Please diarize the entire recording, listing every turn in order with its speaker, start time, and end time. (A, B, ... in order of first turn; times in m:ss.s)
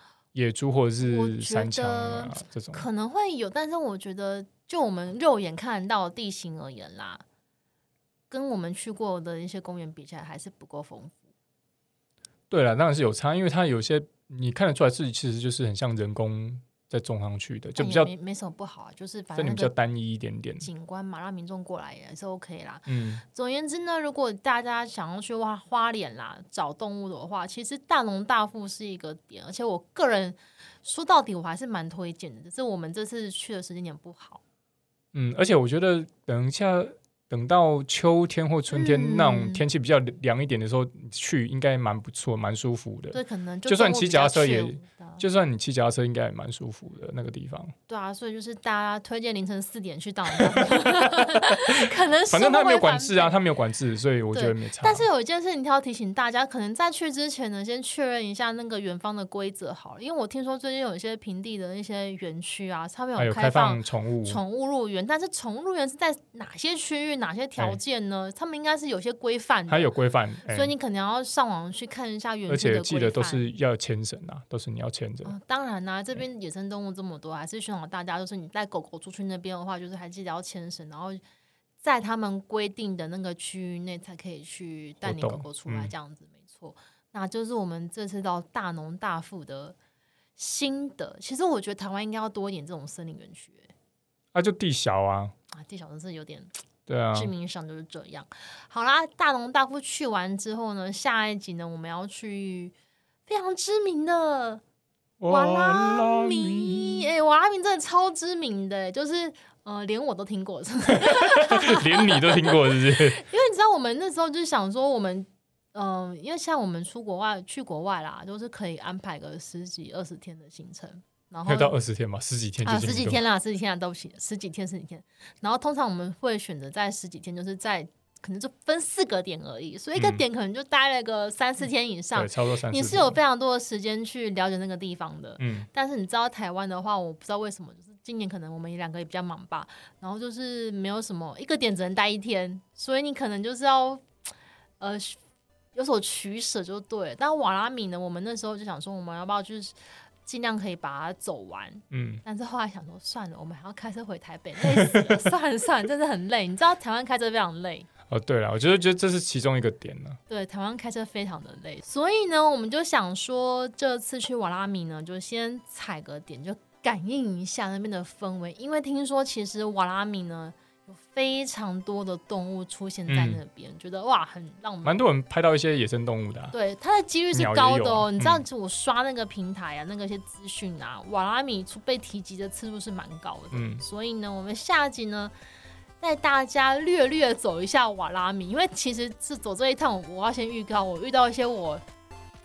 0:00.3-0:02.8 A
0:01.0-0:07.2 B
0:08.3-0:11.2 B
0:12.5-0:18.1 A
0:17.8-0:19.7 B
0:19.4-0:20.7 A
0:20.6-0:34.4 B
0:22.9-0:23.2 A
0:35.1-0:47.7 A
0:38.7-0:39.6 B
0:43.1-0:45.2 B
0:47.9-0:53.4 B
0:50.4-0:55.0 A
0:54.3-1:09.9 B
1:03.2-1:04.4 A
1:09.7-1:10.7 A
1:10.5-1:13.5 B
1:12.5-1:15.3 A
1:15.2-1:21.2 B
1:21.8-1:29.8 B
1:25.0-1:25.9 A
1:30.4-1:33.7 B
1:34.3-1:35.3 A
1:35.5-1:36.5 B
1:36.9-1:37.3 A
1:37.1-1:42.7 B
1:43.3-1:44.6 B
1:45.2-1:47.1 A
1:45.3-2:01.8 B
1:50.9-1:53.2 A
2:01.4-2:03.2 A
2:02.6-2:24.1 B
2:10.0-2:10.2 A
2:12.1-2:13.2 A
2:15.4-2:15.7 A
2:24.8-2:25.2 B
2:25.7-2:37.9 B
2:31.9-2:32.2 A
2:34.8-2:35.1 A
2:38.1-2:40.2 A
2:40.3-2:55.0 B
2:53.1-2:53.4 A
2:54.8-2:56.5 A
2:56.5-3:05.3 B
2:57.3-2:58.4 A
3:03.5-3:03.8 A
3:06.0-3:11.8 B